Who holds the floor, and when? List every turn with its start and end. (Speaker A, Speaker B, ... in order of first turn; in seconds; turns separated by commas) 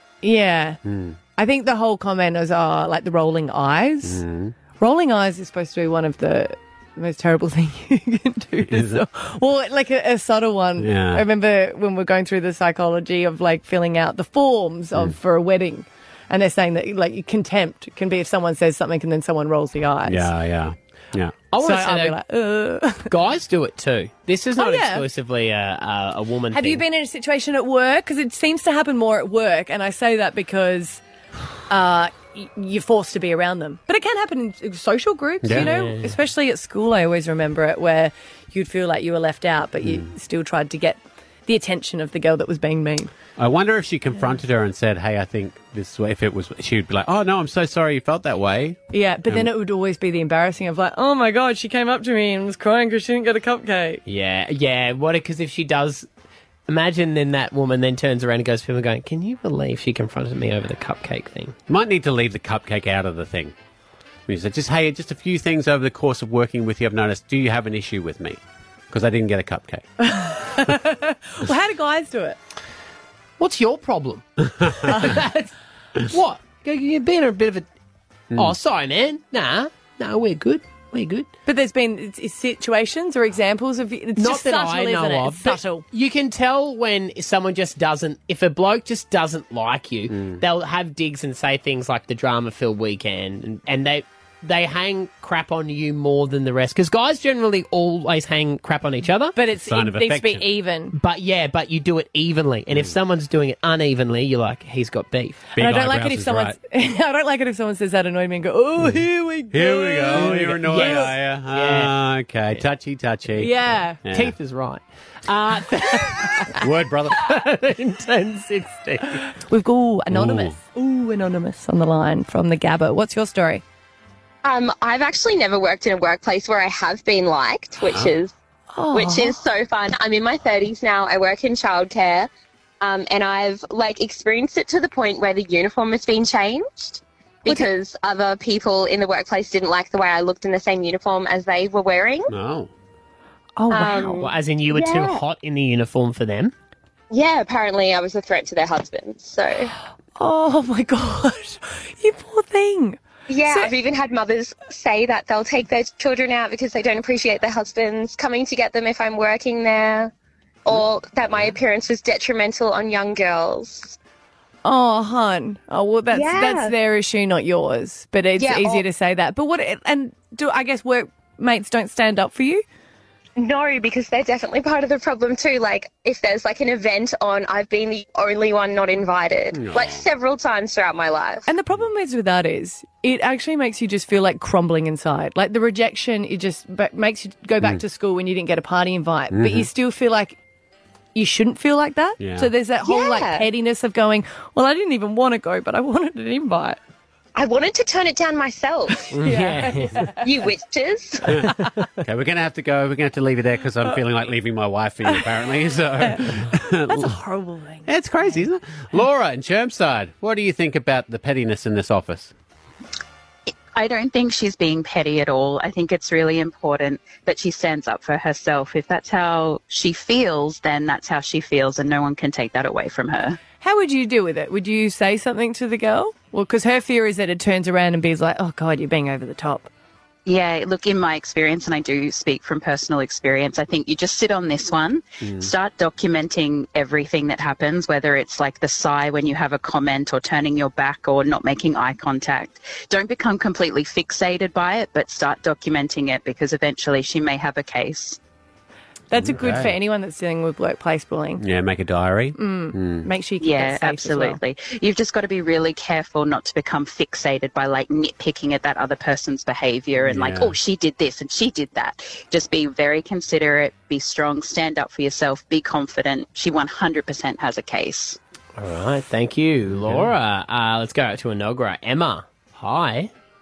Speaker A: 0.2-0.8, Speaker B: 0.8-1.2, Speaker A: 1.4-4.2, Speaker B: 4.0-4.5, Speaker A: 4.8-20.3, Speaker B: 8.6-9.0, Speaker B: 10.8-11.2, Speaker B: 20.0-21.3, Speaker C: 21.5-22.1, Speaker A: 21.6-23.1, Speaker C: 23.1-26.8, Speaker A: 24.6-25.0, Speaker A: 26.5-31.0, Speaker A: 31.7-43.1, Speaker B: 35.4-35.7, Speaker C: 35.5-36.1, Speaker B: 39.8-40.1, Speaker B: 43.4-49.5, Speaker A: 48.9-54.0, Speaker C: 54.0-56.1, Speaker C: 56.7-61.5, Speaker B: 61.7-63.5, Speaker B: 64.3-68.4, Speaker B: 68.9-69.8, Speaker A: 70.0-72.4, Speaker C: 73.4-74.2, Speaker C: 74.8-75.3, Speaker A: 74.9-75.5, Speaker C: 76.0-77.7, Speaker C: 78.3-81.3, Speaker A: 81.5-85.8, Speaker C: 84.2-99.3, Speaker B: 90.1-90.4, Speaker A: 99.3-100.9, Speaker B: 99.6-100.5, Speaker C: 100.9-105.4, Speaker B: 105.5-106.6, Speaker A: 105.6-111.1, Speaker B: 108.8-114.3, Speaker C: 110.1-111.9, Speaker A: 113.3-114.0, Speaker C: 114.0-116.5, Speaker B: 116.5-117.3, Speaker C: 117.2-119.2, Speaker A: 119.5-123.6, Speaker B: 120.1-120.6, Speaker D: 124.4-128.3, Speaker B: 127.9-128.1, Speaker A: 128.7-129.3, Speaker D: 128.9-132.3, Speaker D: 132.8-142.3, Speaker B: 142.3-142.7, Speaker A: 143.6-144.2, Speaker D: 143.7-145.2, Speaker C: 144.2-146.5, Speaker D: 147.1-149.7, Speaker A: 150.2-153.7, Speaker D: 153.3-160.1, Speaker D: 160.6-164.0, Speaker B: 161.2-161.6, Speaker A: 164.6-172.6, Speaker D: 166.1-166.7, Speaker D: 168.4-168.8, Speaker D: 173.4-181.5, Speaker B: 179.5-180.1, Speaker A: 181.5-190.4, Speaker B: 189.3-189.7, Speaker A: 191.1-196.8, Speaker B: 192.2-192.5, Speaker D: 192.8-193.4, Speaker D: 197.3-199.2, Speaker C: 199.1-200.1, Speaker A: 199.2-200.2, Speaker D: 200.2-201.3, Speaker B: 202.0-207.2, Speaker A: 206.0-206.4, Speaker A: 206.9-208.4, Speaker B: 207.8-212.3, Speaker E: 213.5-223.4, Speaker A: 223.6-229.7, Speaker E: 230.2-248.2, Speaker B: 235.2-235.5, Speaker A: 249.1-251.4, Speaker B: 249.2-249.7, Speaker B: 251.4-253.1, Speaker A: 252.4-254.4, Speaker E: 253.4-268.2, Speaker B: 260.0-260.6, Speaker C: 268.6-273.1, Speaker B: 269.7-270.1